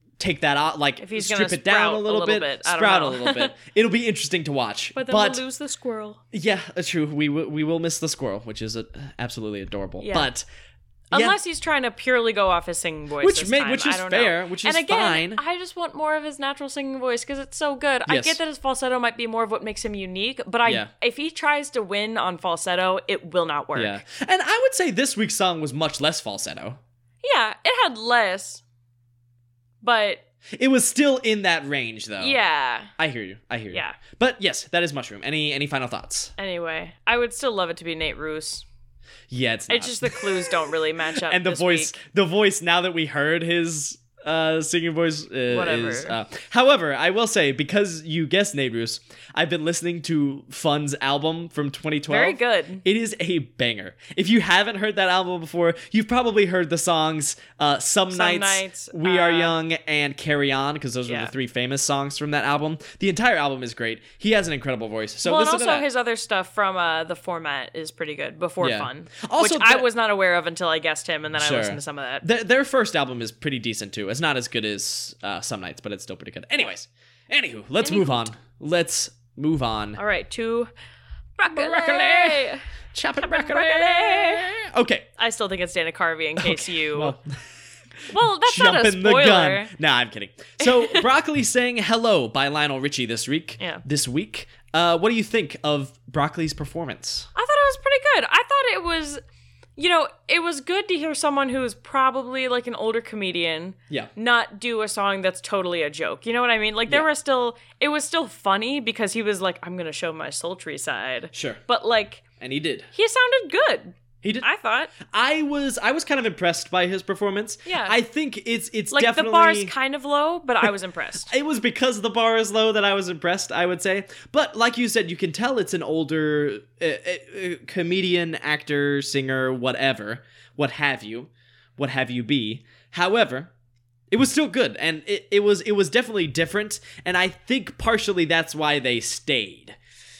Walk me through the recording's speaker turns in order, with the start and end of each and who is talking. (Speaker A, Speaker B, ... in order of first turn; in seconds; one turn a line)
Speaker A: 0.2-5.4
Speaker B: 1.0-3.5
Speaker B: 5.0-6.2
Speaker A: 6.3-10.5
Speaker B: 10.0-10.3
Speaker A: 11.1-11.4
Speaker B: 11.1-24.0
Speaker A: 13.2-15.4
Speaker A: 18.1-18.4
Speaker A: 20.6-20.9
Speaker A: 23.8-26.8
Speaker B: 27.2-28.6
Speaker B: 29.8-30.2
Speaker A: 30.6-32.4
Speaker B: 32.2-32.9
Speaker A: 33.0-36.3
Speaker B: 33.7-34.0
Speaker B: 36.4-38.7
Speaker A: 39.3-40.5
Speaker B: 39.7-41.9
Speaker A: 41.2-65.9
Speaker B: 45.5-46.2
Speaker B: 52.1-52.8
Speaker B: 58.1-59.6
Speaker B: 61.1-61.3
Speaker B: 65.2-72.2
Speaker A: 68.6-69.9
Speaker A: 71.4-80.0
Speaker B: 77.8-78.3
Speaker B: 80.0-80.7
Speaker B: 81.4-82.6
Speaker A: 81.5-85.1
Speaker B: 83.2-84.5
Speaker B: 85.2-87.2
Speaker A: 86.4-87.4
Speaker A: 88.0-97.3
Speaker B: 88.1-89.7
Speaker B: 90.6-91.0
Speaker B: 97.3-99.2
Speaker B: 99.8-112.2
Speaker A: 111.3-111.6
Speaker A: 112.4-112.9
Speaker B: 112.9-115.0
Speaker A: 114.2-114.5
Speaker A: 115.0-119.7
Speaker B: 117.7-118.0
Speaker B: 118.9-121.3
Speaker A: 121.3-133.5
Speaker A: 134.1-139.8